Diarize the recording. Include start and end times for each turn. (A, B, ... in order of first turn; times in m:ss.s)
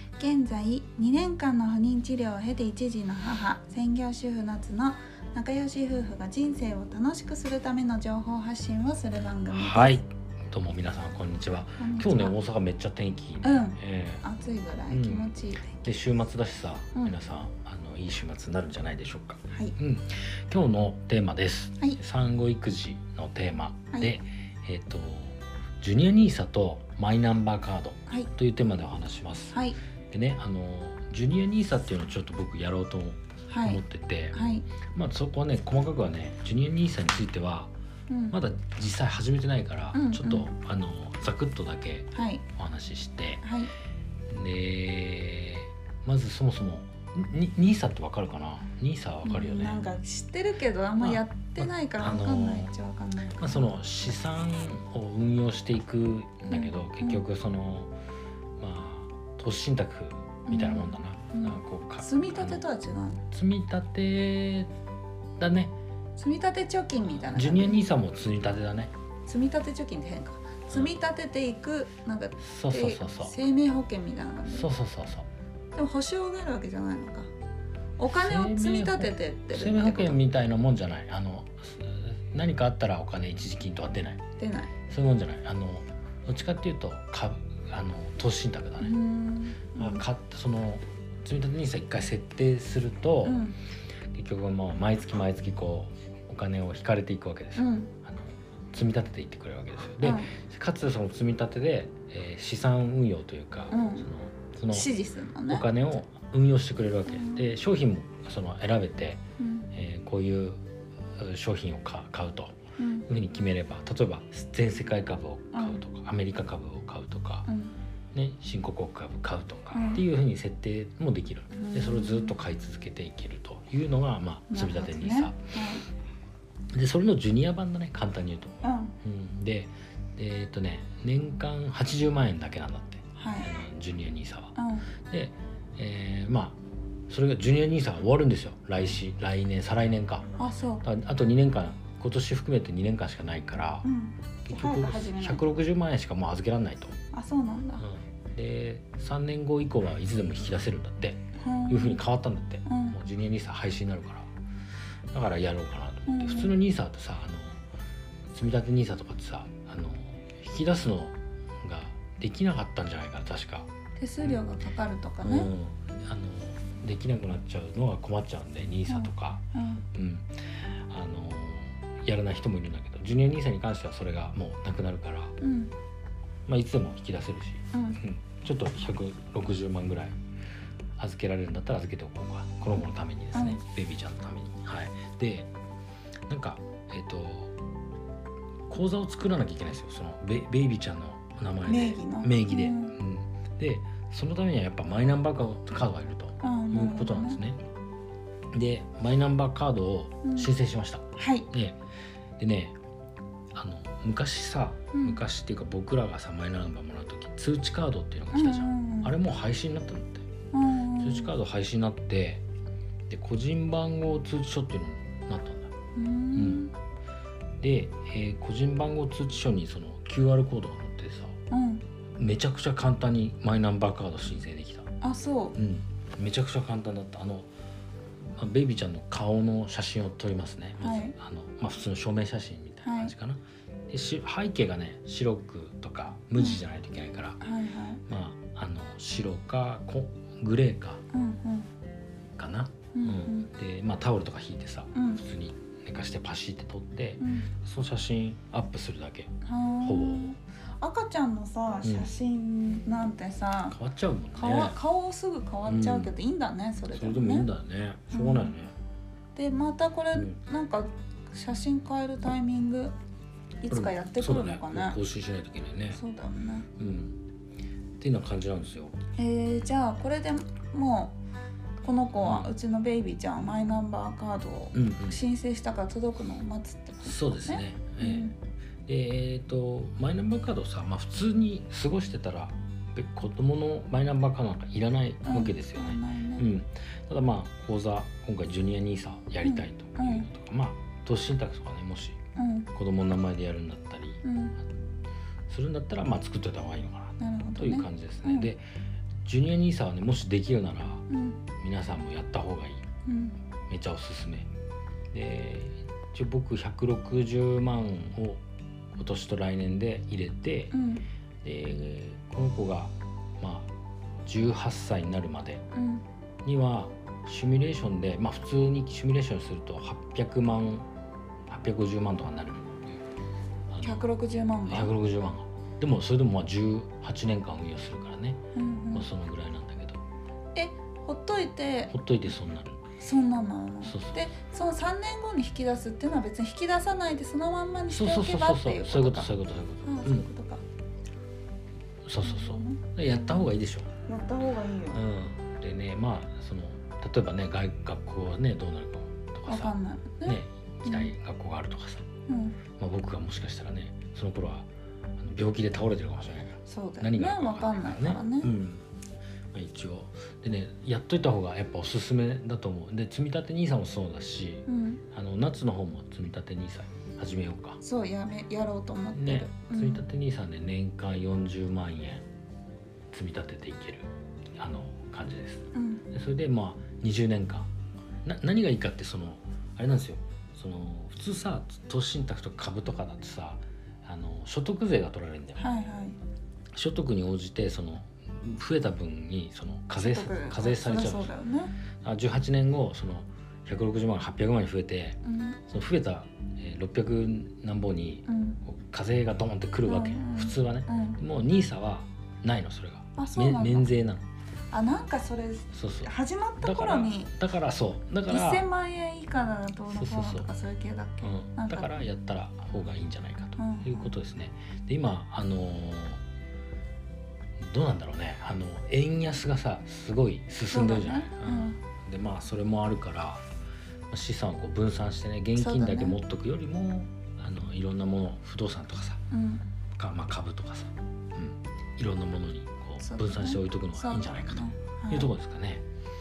0:00.2-0:10.0 A
0:09.5-0:14.2 B
0:11.8-0:12.3 A
0:13.4-0:15.7 A
0:14.9-0:29.6 B
0:19.5-0:19.8 A
0:29.5-0:29.8 A
0:30.1-0:34.4 B
0:33.5-0:33.8 A
0:34.3-0:34.7 A
0:34.9-0:37.7 B
0:38.1-0:38.4 A
0:38.3-0:43.4 B
0:39.9-0:40.5 A
0:42.1-0:42.4 A
0:43.4-0:43.7 A
0:44.3-0:49.8 B
0:49.2-0:53.7 A
0:51.0-0:52.7 B
0:53.4-0:57.9 B
0:56.5-0:57.2 A
0:58.6-1:02.6 B
1:00.5-1:03.2 A
1:03.3-1:04.7 B
1:05.4-1:05.7 B
1:06.2-1:07.8 A
1:07.3-1:08.9 B
1:09.3-1:14.7 A
1:12.4-1:13.4 B
1:14.5-1:15.2 B
1:15.7-1:17.3 A
1:18.0-1:20.2 A
1:18.1-1:24.2 B
1:24.4-1:24.7 A
1:24.9-1:29.0 B
1:28.8-1:30.0 A
1:29.8-1:33.4 B
1:33.2-1:33.6 A
1:34.1-1:44.9 B
1:37.6-1:37.9 A
1:40.0-1:40.3 A
1:43.7-1:44.1 A
1:44.7-1:45.7 A
1:45.5-1:49.2 B
1:47.1-1:47.5 A
1:49.4-1:49.7 A
1:49.7-1:50.6 B
1:51.2-1:57.5 B
1:52.8-1:53.1 A
1:55.5-1:55.8 A
1:57.5-1:57.8 A
1:58.1-2:05.4 B
1:59.7-2:00.0 A
2:01.5-2:02.3 A
2:04.5-2:05.9 A
2:06.7-2:14.6 B
2:08.6-2:09.0 A
2:13.2-2:13.5 A
2:14.6-2:14.9 A
2:15.1-2:16.6 B
2:17.1-2:20.3 B
2:20.4-2:20.8 A
2:20.8-2:23.8 B
2:23.8-2:25.4 A
2:24.5-2:27.0 B
2:27.1-2:27.8 A
2:27.8-2:34.3 B
2:31.4-2:32.0 A
2:32.7-2:33.0 A
2:35.1-2:37.6 B
2:36.1-2:36.5 A
2:38.3-2:43.7 B
2:44.0-2:45.5 A
2:45.2-2:49.4 B
2:48.9-2:49.8 A
2:49.9-2:50.3 B
2:50.9-2:55.4 B
2:55.4-2:55.7 A
2:56.5-3:00.2 B
2:57.7-2:58.0 A
3:01.0-3:05.5 B
3:03.3-3:03.6 A
3:06.3-3:07.5 B
3:08.7-3:17.6 B
3:11.6-3:13.0 A
3:16.4-3:17.4 A
3:18.5-3:21.8 B
3:20.2-3:20.5 A
3:21.2-3:21.5 A
3:22.4-3:22.8 B
3:23.5-3:30.3 B
3:24.9-3:25.2 A
3:28.3-3:29.1 A
3:30.5-3:31.3 A
3:31.0-3:32.4 B
3:33.1-3:35.7 B
3:35.9-3:36.7 A
3:36.3-3:36.7 B
3:37.6-3:41.4 B
3:41.5-3:41.8 A
3:42.2-3:44.9 B
3:45.0-3:45.6 A
3:45.6-3:47.5 B
3:48.4-3:57.4 B
3:50.8-3:51.2 A
3:52.8-3:53.1 A
3:57.4-3:58.0 A
3:58.1-4:01.0 B
4:01.1-4:01.7 A
4:02.3-4:09.3 B
4:02.9-4:03.5 A
4:04.9-4:05.2 A
4:07.2-4:07.5 A
4:09.4-4:13.8 A
4:09.8-4:10.3 B
4:11.8-4:12.1 B
4:13.7-4:14.8 B
4:14.4-4:17.5 A
4:15.6-4:16.1 B
4:16.9-4:18.7 B
4:18.1-4:18.5 A
4:19.3-4:22.9 A
4:23.6-4:25.0 A
4:23.7-4:26.0 B
4:25.9-4:26.7 A
4:26.8-4:27.2 B
4:28.0-4:29.0 B
4:29.2-4:31.2 A
4:31.8-4:38.3 A
4:32.2-4:32.5 B
4:34.7-4:35.2 B
4:37.0-4:38.3 B
4:38.9-4:52.2 B
4:45.2-4:46.4 A
4:49.4-4:50.3 A
4:52.4-4:52.7 A
4:52.7-4:54.2 B
4:54.2-4:54.6 A
4:55.5-4:58.6 B
4:57.2-4:58.5 A
4:59.2-5:01.0 B
5:01.1-5:01.4 A
5:01.6-5:02.8 B
5:03.0-5:03.4 A
5:03.7-5:04.5 B
5:05.1-5:08.4 B
5:09.0-5:10.7 B
5:10.7-5:11.0 A
5:11.4-5:13.7 B
5:14.2-5:15.6 B
5:15.7-5:16.0 A
5:16.4-5:20.8 B
5:21.5-5:23.0 B
5:23.7-5:24.0 B
5:23.8-5:24.9 A
5:24.7-5:28.4 B
5:28.5-5:29.1 A
5:28.9-5:30.0 B
5:30.5-5:31.9 A
5:31.9-5:32.8 B
5:33.0-5:40.6 A
5:33.8-5:34.2 B
5:37.9-5:40.2 B
5:42.0-5:43.9 B
5:42.2-5:43.5 A
5:44.1-5:45.0 A
5:44.9-5:52.0 B
5:49.5-5:51.1 A
5:52.3-5:52.6 A
5:52.8-5:58.8 B
5:56.6-5:58.5 A
5:59.5-6:07.8 B
6:04.6-6:05.0 A
6:07.8-6:10.0 A
6:09.1-6:12.2 B
6:13.1-6:17.7 B
6:15.7-6:16.0 A
6:18.2-6:25.6 B
6:25.6-6:26.2 A
6:26.7-6:31.3 B
6:30.0-6:31.7 A
6:32.0-6:44.2 B
6:35.2-6:35.6 A
6:38.3-6:38.6 A
6:39.8-6:41.2 A
6:43.2-6:43.9 A
6:44.7-6:47.3 A
6:45.7-6:48.7 B
6:48.3-6:52.0 A
6:49.9-6:50.5 B
6:51.2-6:56.2 B
6:53.6-6:54.1 A
6:57.7-7:03.4 B
7:00.7-7:01.8 A
7:04.1-7:09.2 B
7:05.6-7:06.2 A
7:09.3-7:09.6 A
7:10.0-7:15.8 B
7:13.0-7:15.3 A